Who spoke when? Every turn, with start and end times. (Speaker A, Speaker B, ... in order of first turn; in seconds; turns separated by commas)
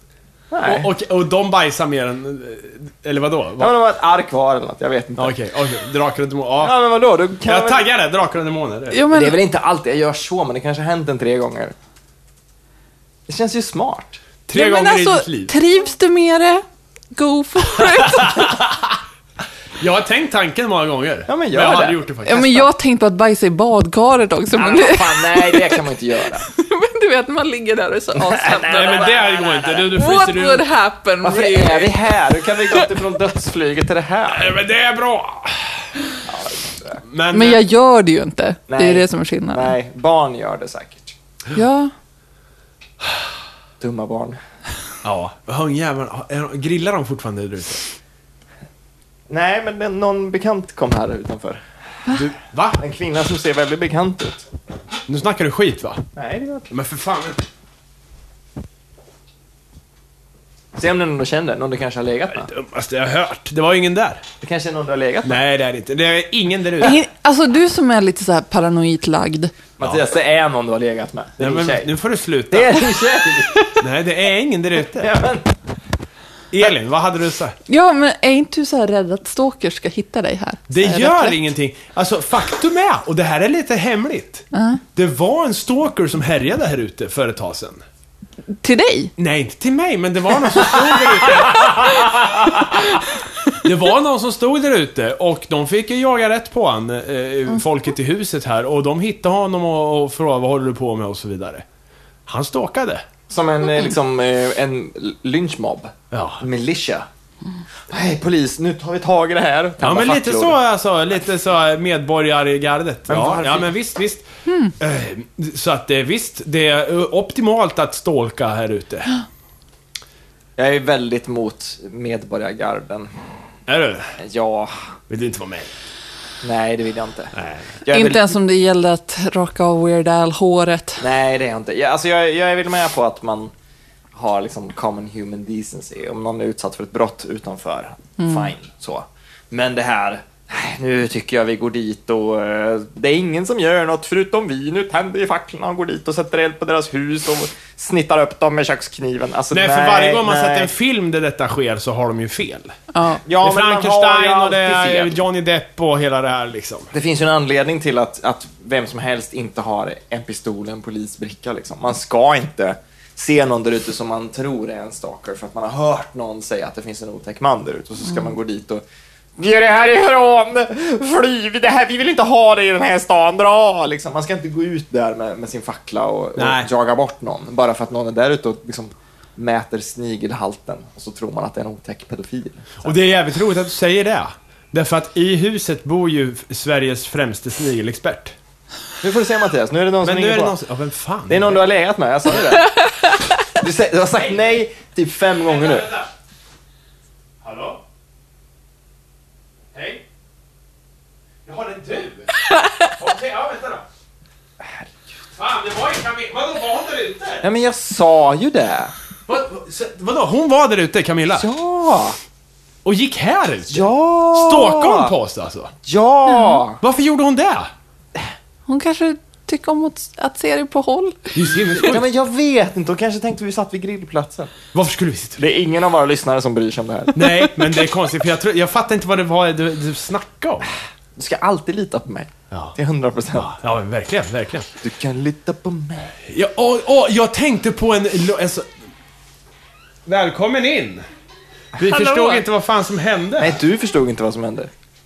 Speaker A: 0.5-0.9, Speaker B: 0.6-3.7, Speaker A: 3.6-5.3, Speaker B: 5.2-6.7, Speaker A: 6.6-7.8, Speaker B: 7.4-9.0, Speaker C: 8.9-9.4, Speaker A: 9.1-11.7, Speaker A: 13.3-14.2, Speaker B: 14.5-15.5, Speaker C: 14.5-18.6, Speaker B: 17.8-19.0, Speaker B: 19.8-22.4, Speaker A: 21.3-22.7, Speaker C: 22.2-25.8, Speaker A: 24.5-26.4, Speaker C: 26.4-29.2, Speaker A: 28.1-29.9, Speaker B: 28.7-30.6, Speaker C: 29.9-31.9, Speaker A: 31.2-34.5, Speaker B: 34.3-36.2, Speaker A: 36.2-37.0, Speaker B: 37.0-37.6, Speaker C: 37.3-39.7, Speaker A: 38.7-41.1, Speaker C: 41.5-41.9, Speaker A: 43.8-44.4, Speaker B: 45.0-47.9, Speaker A: 49.3-51.6, Speaker B: 52.1-52.8, Speaker A: 52.8-54.4, Speaker B: 55.1-56.0, Speaker A: 56.1-56.7, Speaker B: 56.7-57.4, Speaker A: 60.8-62.5, Speaker B: 62.3-64.2, Speaker A: 64.4-65.4, Speaker B: 65.2-67.0, Speaker C: 66.8-69.5, Speaker A: 69.8-71.9, Speaker B: 71.4-72.8, Speaker A: 72.5-73.8, Speaker B: 73.8-75.1, Speaker A: 74.9-75.5, Speaker B: 76.5-77.5, Speaker C: 77.7-81.4, Speaker B: 80.7-87.8, Speaker C: 84.5-84.8, Speaker C: 88.6-89.1, Speaker B: 89.2-93.0, Speaker C: 91.6-92.0, Speaker C: 92.6-93.1, Speaker B: 93.6-101.6, Speaker B: 102.2-103.0, Speaker A: 103.3-107.1, Speaker B: 106.1-106.4, Speaker A: 107.9-110.6, Speaker B: 109.8-114.2, Speaker A: 113.1-113.7, Speaker C: 114.5-114.7, Speaker B: 114.8-119.1, Speaker A: 120.6-123.1, Speaker B: 123.7-124.2, Speaker A: 124.2-124.7, Speaker B: 125.1-125.7, Speaker A: 126.4-128.3, Speaker B: 127.3-127.7, Speaker C: 127.9-131.0, Speaker A: 131.0-133.5, Speaker A: 134.1-150.7, Speaker C: 138.2-138.5, Speaker B: 149.5-152.7, Speaker C: 152.9-153.2, Speaker A: 153.2-155.2, Speaker B: 153.4-156.9, Speaker A: 156.9-168.8, Speaker A: 169.4-182.9, Speaker B: 176.4-176.7, Speaker B: 182.8-188.3, Speaker A: 189.0-190.6, Speaker B: 190.0-191.7, Speaker A: 191.3-192.8, Speaker A: 193.4-195.9, Speaker B: 195.5-196.1, Speaker B: 197.4-197.8, Speaker B: 199.7-200.0, Speaker B: 201.4-203.8, Speaker A: 204.6-204.8, Speaker B: 205.3-207.4, Speaker A: 207.4-208.9, Speaker B: 209.3-211.5, Speaker A: 211.3-212.2, Speaker B: 212.8-215.7, Speaker A: 213.7-215.1, Speaker A: 215.8-216.8, Speaker C: 216.3-216.6, Speaker B: 216.8-217.7, Speaker C: 218.7-221.3, Speaker B: 221.3-222.1, Speaker A: 221.8-224.5, Speaker B: 224.7-225.4, Speaker A: 225.4-227.2, Speaker B: 227.1-230.8, Speaker A: 231.2-233.5, Speaker B: 232.5-232.8, Speaker B: 233.3-234.7, Speaker A: 234.8-236.2, Speaker B: 236.2-238.7, Speaker B: 240.1-241.0, Speaker A: 241.8-242.4, Speaker B: 241.8-243.6, Speaker A: 243.4-244.7